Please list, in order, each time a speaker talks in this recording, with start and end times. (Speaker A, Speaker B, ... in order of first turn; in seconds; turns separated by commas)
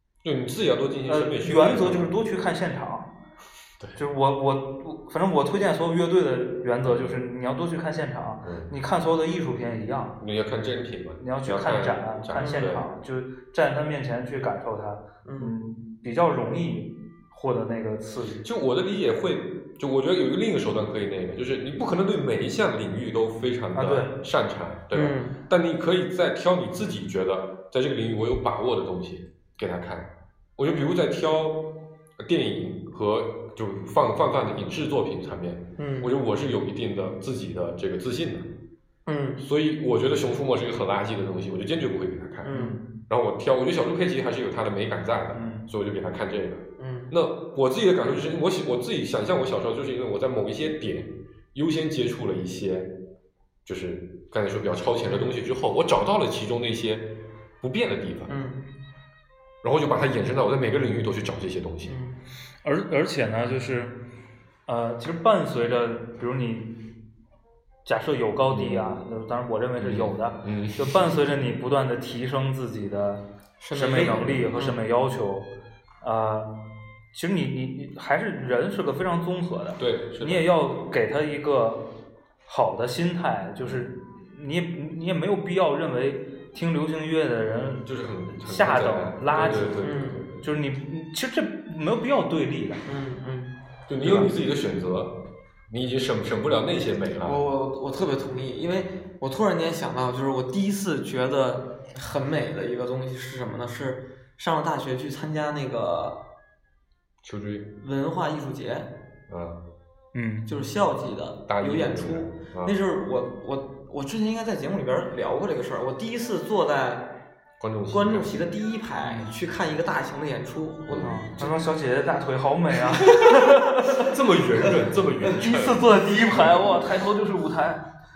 Speaker A: 0.2-2.1, Speaker B: 1.1-3.1, Speaker B: 4.0-10.2, Speaker A: 6.8-7.2, Speaker A: 8.4-8.7, Speaker A: 10.2-12.9, Speaker B: 11.2-18.4, Speaker C: 12.4-12.7, Speaker C: 15.2-15.5, Speaker A: 18.4-38.5, Speaker B: 23.8-24.1, Speaker C: 24.9-25.4, Speaker C: 35.8-36.1, Speaker C: 39.1-39.4, Speaker A: 39.4-52.9, Speaker C: 42.4-42.8, Speaker B: 42.5-42.9, Speaker B: 45.3-45.7, Speaker C: 46.8-47.1, Speaker A: 53.6-58.4, Speaker C: 55.1-55.3, Speaker C: 58.3-58.6, Speaker A: 59.6-62.0, Speaker C: 61.9-62.2, Speaker B: 62.6-64.0, Speaker B: 64.7-66.8, Speaker B: 67.8-75.5, Speaker A: 68.5-69.0, Speaker A: 69.8-71.1, Speaker C: 73.6-74.8, Speaker B: 76.0-76.5, Speaker B: 77.1-81.9, Speaker A: 79.8-80.5, Speaker B: 82.5-87.9, Speaker A: 83.6-83.9, Speaker A: 87.8-90.5, Speaker B: 88.4-92.8, Speaker C: 89.8-90.2, Speaker C: 92.9-94.3, Speaker A: 93.9-97.4, Speaker C: 97.2-106.2, Speaker A: 107.2-107.7, Speaker C: 107.8-108.9, Speaker A: 109.3-109.6, Speaker B: 110.1-110.5, Speaker C: 110.5-117.2, Speaker A: 111.5-112.8, Speaker A: 117.6-118.3, Speaker C: 117.9-121.6, Speaker B: 119.0-119.3, Speaker A: 120.9-121.2, Speaker B: 121.0-124.1, Speaker A: 123.0-125.8, Speaker B: 125.3-127.8